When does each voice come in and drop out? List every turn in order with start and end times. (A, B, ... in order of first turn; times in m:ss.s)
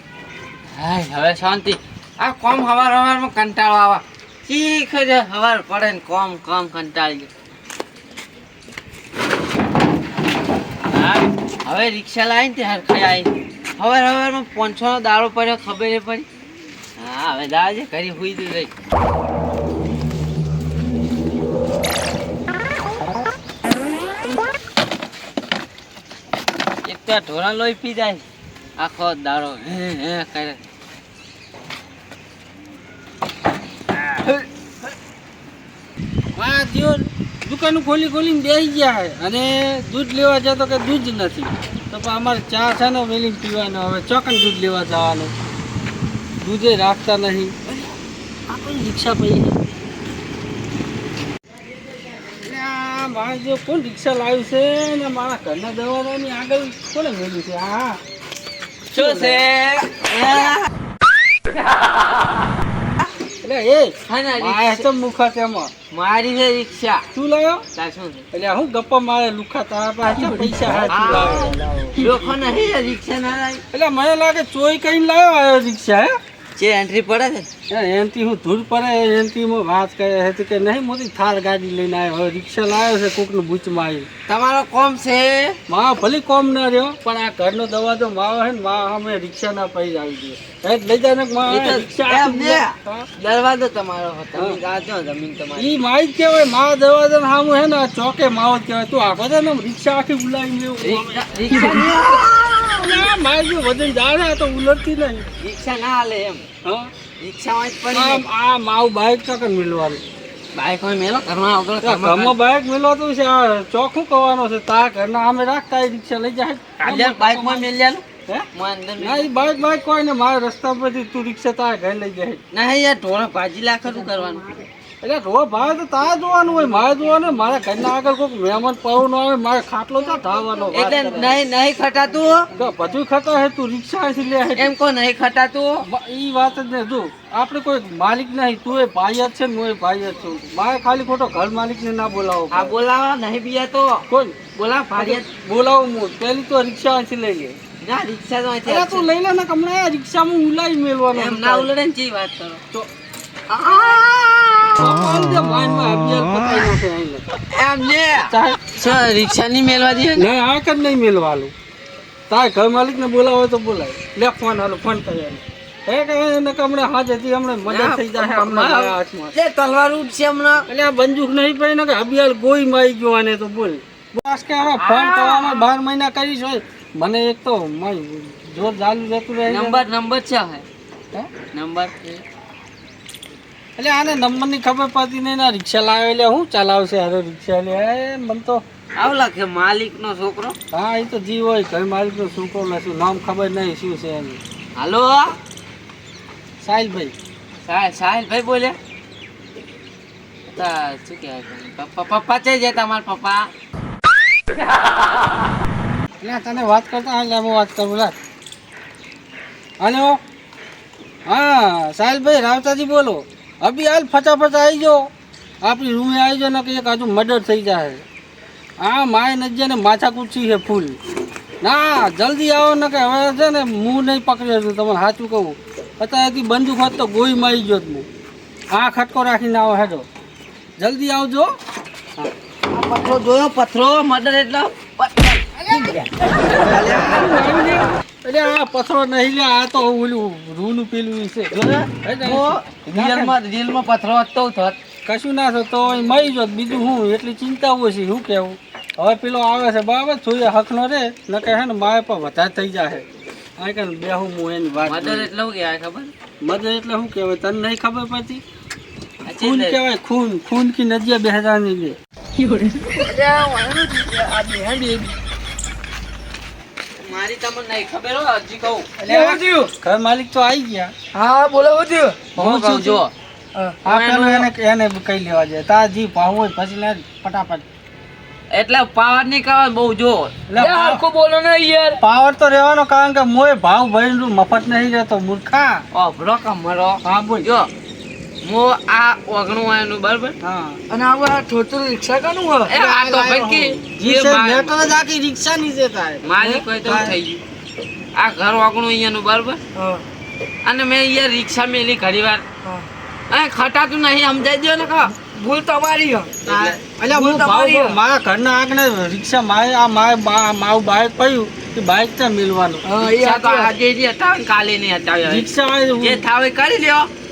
0:00.8-0:07.3 A
0:10.9-0:16.3 A
0:17.0-0:18.7 A
0:26.9-0:28.2 A
0:28.8-0:30.6 A
0:36.4-0:45.3 B
0:46.4-0:47.6 B
0:48.5-0:49.6 B
0:52.4-0:58.0 B
0:58.9-0:59.5 B
0:58.9-1:00.7 A
1:03.4-1:05.7 B
1:04.1-1:04.9 A
1:05.9-1:07.1 A
1:07.1-1:07.7 B
1:07.8-1:08.3 A
1:08.3-1:12.3 B
1:10.9-1:13.6 A
1:13.7-1:16.2 B
1:16.6-1:17.5 A
1:17.7-1:24.1 B
1:24.3-1:25.6 A
1:25.7-1:33.1 B
1:31.5-1:35.8 A
1:34.4-1:34.6 B
1:35.6-1:42.2 B
1:40.8-1:43.1 A
1:42.8-1:45.3 B
1:45.4-1:46.5 A
1:46.6-1:46.9 B
1:47.2-1:48.2 A
1:47.9-1:50.0 B
1:50.6-1:52.4 A
1:51.8-1:57.7 B
1:56.8-1:59.3 A
1:59.0-2:02.4 B
2:02.5-2:04.6 A
2:05.0-2:11.4 B
2:10.7-2:12.5 A
2:12.6-2:14.7 B
2:14.6-2:15.9 A
2:15.8-2:22.8 B
2:22.5-2:25.3 A
2:24.1-2:24.4 B
2:25.0-2:27.6 B
2:27.8-2:29.1 A
2:28.6-2:31.7 B
2:31.1-2:32.6 A
2:33.5-2:35.0 A
2:34.8-2:37.2 B
2:37.5-2:40.3 A
2:38.3-2:38.6 B
2:40.2-2:41.5 B
2:42.3-2:49.4 B
2:47.7-2:50.7 A
2:50.7-2:59.8 B
2:54.7-2:55.7 A
2:59.5-3:00.6 A
3:01.3-3:02.2 A
3:03.8-3:08.6 B
3:09.0-3:10.6 A
3:10.7-3:14.4 B
3:14.8-3:15.4 A
3:16.6-3:17.1 B
3:17.6-3:18.8 A
3:20.5-3:23.5 A
3:26.2-3:28.2 B
3:29.8-3:30.2 B
3:31.3-3:35.1 B
3:35.6-3:38.0 B
3:38.8-3:41.0 B
3:41.6-3:48.1 B
3:48.7-3:50.1 B
3:50.8-3:51.5 B
3:52.7-3:57.3 A
3:56.6-4:01.5 B
4:01.5-4:04.8 A
4:02.0-4:03.4 B
4:05.1-4:13.0 B
4:13.6-4:15.3 B
4:14.8-4:16.1 A
4:16.4-4:18.4 B
4:19.2-4:19.8 A
4:19.4-4:22.0 B
4:22.4-4:23.1 A
4:23.0-4:25.2 C
4:27.0-4:29.0 A
4:29.0-4:29.7 C
4:29.1-4:30.9 B
4:31.1-4:32.2 C
4:32.4-4:33.1 A
4:32.4-4:33.0 B
4:33.8-4:37.6 B
4:33.9-4:34.5 A
4:38.5-4:40.3 A
4:40.5-4:41.0 B
4:40.6-4:42.0 C
4:42.0-4:45.8 B
4:45.9-4:47.7 A
4:47.0-4:47.5 B
4:48.4-4:50.4 A
4:50.4-4:50.8 B
4:50.9-4:52.7 C
4:52.7-4:54.8 A
4:52.7-4:56.3 B
4:56.2-4:57.4 A
4:56.8-4:57.2 B
4:58.2-4:59.6 A
4:59.8-5:00.0 C
5:00.6-5:02.4 A
5:03.3-5:05.1 A
5:05.2-5:06.3 C
5:06.4-5:06.8 A
5:06.5-5:12.9 B
5:07.1-5:08.0 C
5:12.8-5:13.7 C
5:13.0-5:15.5 A
5:15.3-5:16.2 B
5:16.0-5:17.1 A